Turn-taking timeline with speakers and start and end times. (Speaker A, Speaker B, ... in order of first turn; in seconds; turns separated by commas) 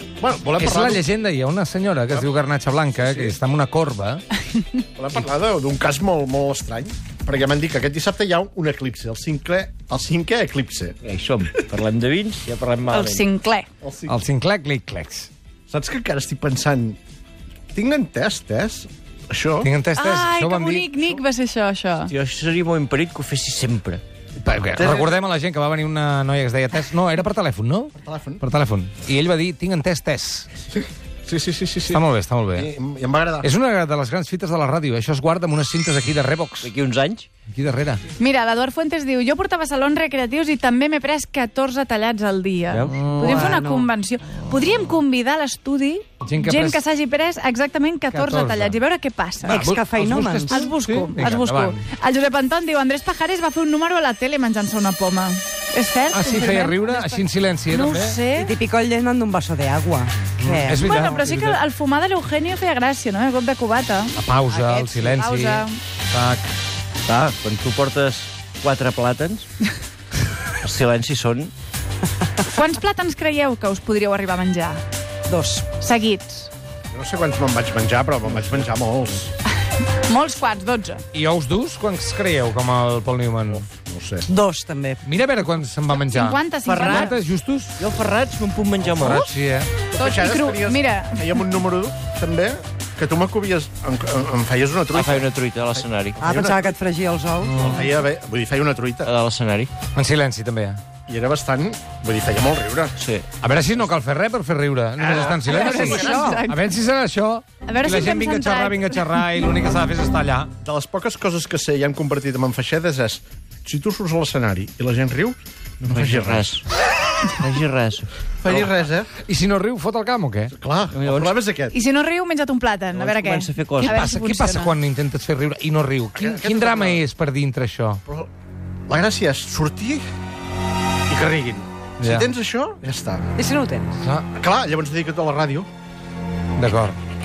Speaker A: 0.2-1.1, Speaker B: 0.6-4.2, Speaker A: 3.0-3.4, Speaker A: 5.0-11.0, Speaker C: 11.0-13.3, Speaker D: 12.9-13.7, Speaker A: 13.8-14.2, Speaker B: 14.1-15.3, Speaker A: 15.7-17.0, Speaker A: 17.7-19.7, Speaker B: 19.6-21.0, Speaker D: 19.9-22.1, Speaker C: 22.0-24.0, Speaker B: 24.4-30.5, Speaker A: 24.7-25.1, Speaker A: 27.9-28.4, Speaker A: 31.2-33.5, Speaker B: 31.9-32.7, Speaker B: 33.4-36.7, Speaker C: 36.6-37.3, Speaker B: 37.5-38.0, Speaker D: 38.2-49.6, Speaker B: 42.9-43.4, Speaker E: 43.1-43.9, Speaker B: 46.2-46.8, Speaker B: 48.1-48.8, Speaker E: 49.4-50.7, Speaker B: 49.5-51.9, Speaker D: 50.5-58.5, Speaker B: 56.1-58.2, Speaker E: 58.3-61.2, Speaker B: 60.4-61.6, Speaker D: 60.8-65.8, Speaker B: 64.2-66.5, Speaker C: 67.0-69.5, Speaker C: 70.6-71.5, Speaker D: 72.4-74.8, Speaker E: 75.3-75.7, Speaker D: 75.6-76.5, Speaker A: 76.9-79.3, Speaker D: 80.0-81.0, Speaker B: 81.1-83.6, Speaker A: 83.5-84.2, Speaker E: 84.2-85.0, Speaker B: 85.0-86.4, Speaker D: 86.0-87.1, Speaker C: 86.6-87.1, Speaker B: 87.0-87.8, Speaker C: 87.8-89.3, Speaker B: 88.9-89.9, Speaker A: 89.9-96.8, Speaker D: 90.0-91.4, Speaker C: 94.9-96.2, Speaker E: 96.2-97.5, Speaker A: 97.5-99.1, Speaker C: 99.0-99.7, Speaker B: 99.9-100.8, Speaker A: 101.1-103.0, Speaker C: 103.0-103.3, Speaker B: 103.4-110.5, Speaker A: 105.2-105.5, Speaker D: 105.3-106.6, Speaker E: 106.0-106.4, Speaker D: 107.6-109.5, Speaker A: 110.6-115.4, Speaker C: 115.8-116.6, Speaker B: 115.9-116.2, Speaker A: 115.9-116.6, Speaker C: 117.3-118.1, Speaker A: 118.4-119.1, Speaker B: 119.2-120.5, Speaker A: 120.5-121.8, Speaker C: 120.9-121.4, Speaker D: 121.7-124.8, Speaker C: 122.9-124.0, Speaker B: 123.8-128.0, Speaker A: 126.1-127.0, Speaker A: 128.9-130.0, Speaker A: 131.2-133.3, Speaker B: 132.0-132.3, Speaker E: 133.3-134.0, Speaker A: 134.3-135.7, Speaker B: 136.6-137.0